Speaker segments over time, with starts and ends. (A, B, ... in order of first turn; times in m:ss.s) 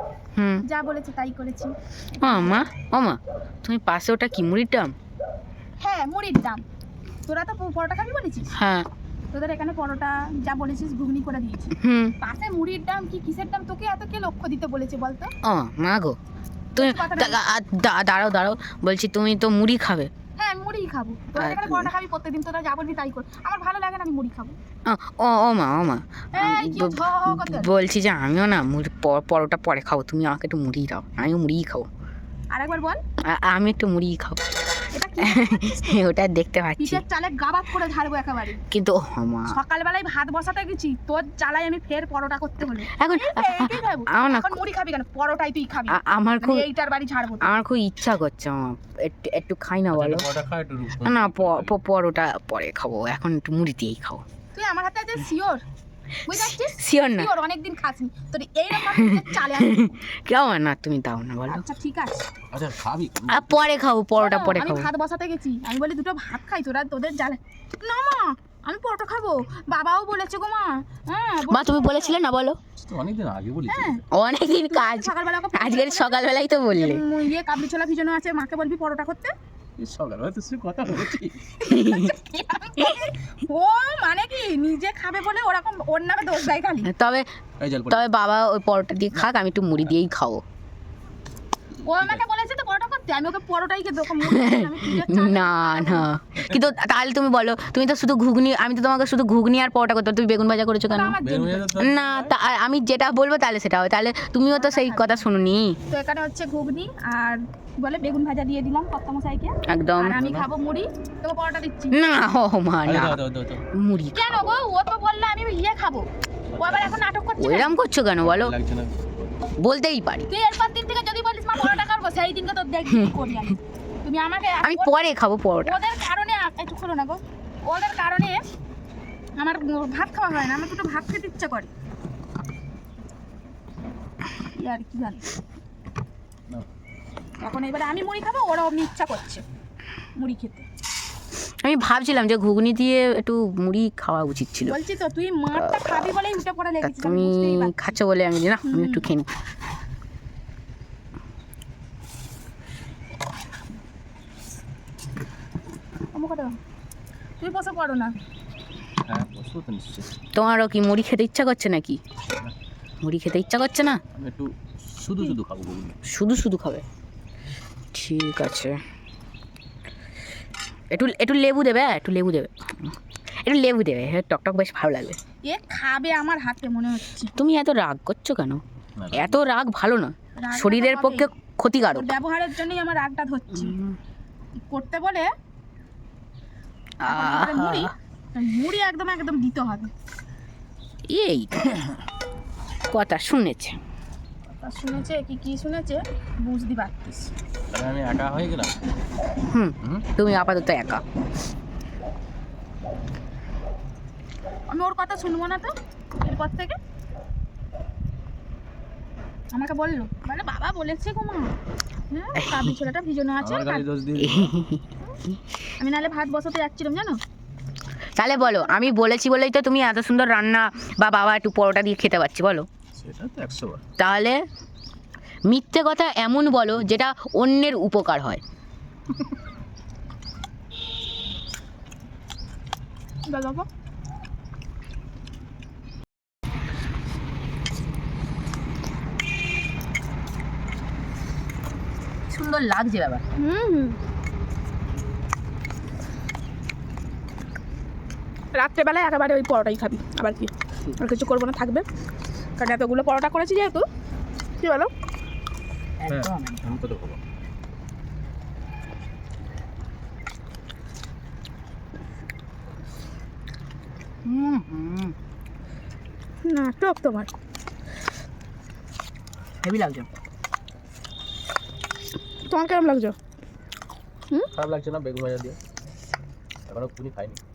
0:00.4-0:00.6 A
0:00.6-0:02.6 B
0:02.2-0:04.9 A
0:05.8-0:06.6 B
0:07.2-0:08.5 B
0:08.5-0:08.9 A
0:09.3-0:15.3 B
0:11.8-0:12.1 A
0:15.4-0:16.2 A
0:16.7-0:17.4 B
0:16.8-0:20.1 A
0:20.4-0:24.6 B
0:21.4-0:21.9 A
0:24.8-0:31.9 A
0:26.3-0:27.7 B
0:32.5-0:33.0 B
0:33.2-0:34.4 A
0:34.9-0:36.0 B
0:35.2-0:37.0 A
0:36.8-0:38.6 B
0:38.7-0:39.6 A
0:39.5-0:47.6 B
0:42.9-0:44.6 A
0:45.9-0:46.7 A
0:47.4-0:50.2 A
0:49.9-0:51.7 C
0:51.0-0:54.2 A
0:54.5-0:55.6 B
0:56.2-1:00.0 B
0:56.4-0:57.3 A
0:58.9-1:01.6 A
1:01.5-1:02.3 B
1:02.5-1:03.7 C
1:03.3-1:04.9 A
1:04.2-1:12.2 B
1:11.5-1:12.6 A
1:12.8-1:14.0 C
1:13.7-1:14.0 B
1:14.1-1:17.0 A
1:14.6-1:19.3 B
1:19.8-1:21.6 C
1:21.6-1:22.1 A
1:21.6-1:26.9 B
1:26.8-1:27.3 A
1:27.6-1:28.1 C
1:27.9-1:30.4 A
1:31.8-1:36.1 B
1:34.2-1:41.2 A
1:40.9-1:41.8 B
1:41.2-1:42.3 C
1:41.8-1:45.8 A
1:44.5-1:45.2 B
1:45.9-1:52.0 B
1:49.7-1:50.2 A
1:50.1-1:50.5 C
1:51.9-1:54.4 A
1:52.8-1:53.7 C
1:54.1-1:57.8 B
1:56.5-1:57.0 C
1:57.4-1:58.5 A
1:58.2-1:59.5 C
1:59.6-2:00.2 A
2:00.3-2:05.0 B
2:04.6-2:05.8 A
2:05.6-2:08.4 B
2:09.4-2:11.7 B
2:14.5-2:15.3 B
2:17.4-2:19.4 B
2:20.2-2:20.6 B
2:21.6-2:24.8 A
2:24.6-2:27.8 B
2:25.7-2:26.0 A
2:26.8-2:29.3 A
2:28.6-2:29.0 B
2:36.1-2:36.6 B
2:37.4-2:38.1 B
2:39.1-2:40.1 C
2:40.3-2:42.0 A
2:42.3-2:42.5 C
2:43.0-2:44.0 A
2:44.2-2:46.0 C
2:46.0-2:46.8 A
2:47.9-2:48.8 A
2:50.9-2:52.7 A
2:53.4-2:55.2 A
2:55.4-2:57.3 B
2:57.4-2:58.6 A
2:59.0-2:59.4 C
2:59.1-3:02.1 A
3:00.4-3:01.3 B
3:01.9-3:03.8 B
3:03.6-3:04.0 A
3:04.7-3:05.3 B
3:07.0-3:07.9 A
3:07.0-3:09.9 B
3:11.1-3:12.0 A
3:12.9-3:13.8 A
3:14.5-3:16.9 B
3:17.0-3:18.7 C
3:19.4-3:21.0 A
3:24.7-3:26.8 B
3:29.5-3:31.5 B
3:32.1-3:33.8 B
3:33.4-3:34.6 C
3:34.2-3:34.8 A
3:35.8-3:37.2 B
3:38.2-3:42.7 A
3:38.3-3:39.0 B
3:42.9-3:43.8 C
3:44.0-3:44.4 A
3:45.5-3:48.4 A
3:53.3-3:53.7 B
4:02.3-4:03.2 A
4:03.4-4:04.0 B
4:08.5-4:11.8 B
4:12.6-4:13.8 B
4:14.6-4:14.9 B
4:16.0-4:16.7 A
4:16.1-4:17.2 C
4:24.2-4:25.1 A
4:26.4-4:27.3 B
4:29.6-4:30.1 A
4:32.5-4:33.2 B
4:34.5-4:35.6 C
4:36.7-4:37.4 C